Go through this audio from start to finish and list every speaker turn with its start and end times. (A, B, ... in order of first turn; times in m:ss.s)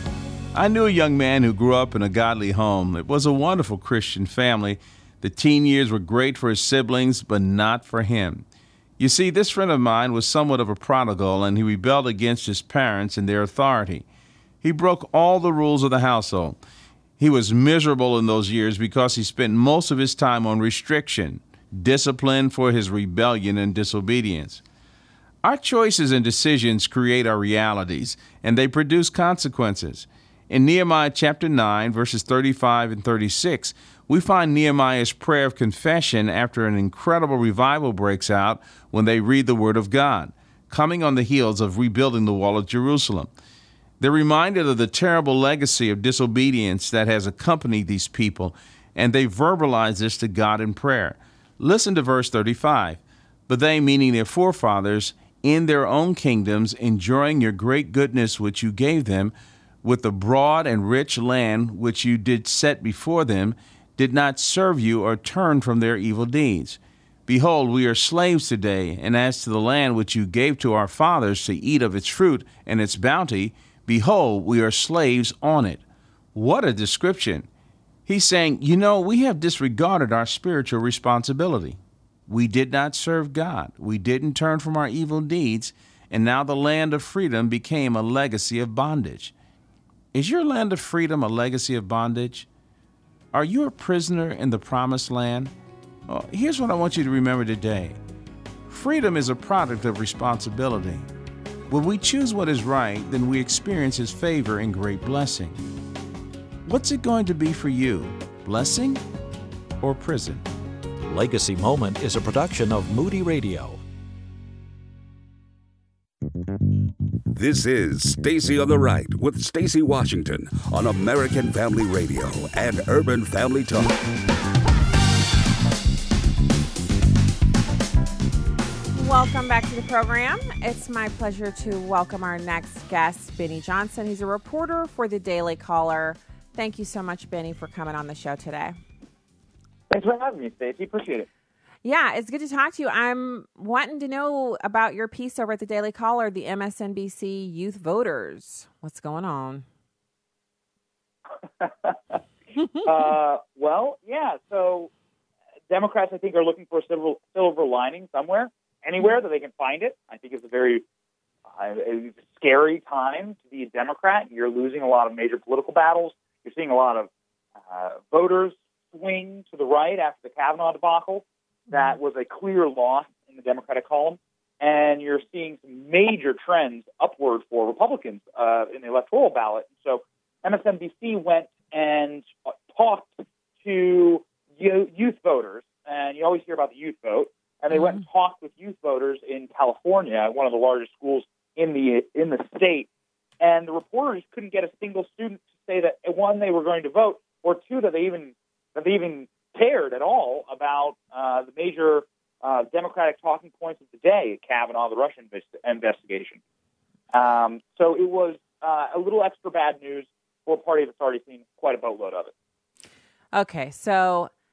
0:00.5-0:08.5 A
0:09.0-0:14.0 A
0:14.6-0:16.6 A
0:17.2-0:24.6 A
0:25.4-0:43.3 A
0:44.0-1:15.8 A
1:16.4-1:17.5 A
1:18.1-1:29.3 A
1:30.1-1:32.5 A
1:33.3-1:35.5 A
1:36.1-1:38.0 A
1:38.7-1:41.1 A
1:41.7-1:45.6 A
1:46.7-1:49.0 A
1:49.8-1:50.4 A
1:51.1-1:53.8 B
1:57.3-2:03.9 C
2:08.9-2:18.8 D
2:19.9-2:21.3 E
2:21.8-2:29.7 D
2:31.6-2:32.2 E
2:32.6-2:32.8 D
2:32.8-2:34.9 E
2:35.7-2:40.8 E
2:41.5-2:47.1 E
2:47.7-3:12.9 E
2:51.7-2:52.0 D
3:07.7-3:08.0 D
3:13.4-3:26.4 E
3:27.1-3:32.3 E
3:33.3-3:34.3 D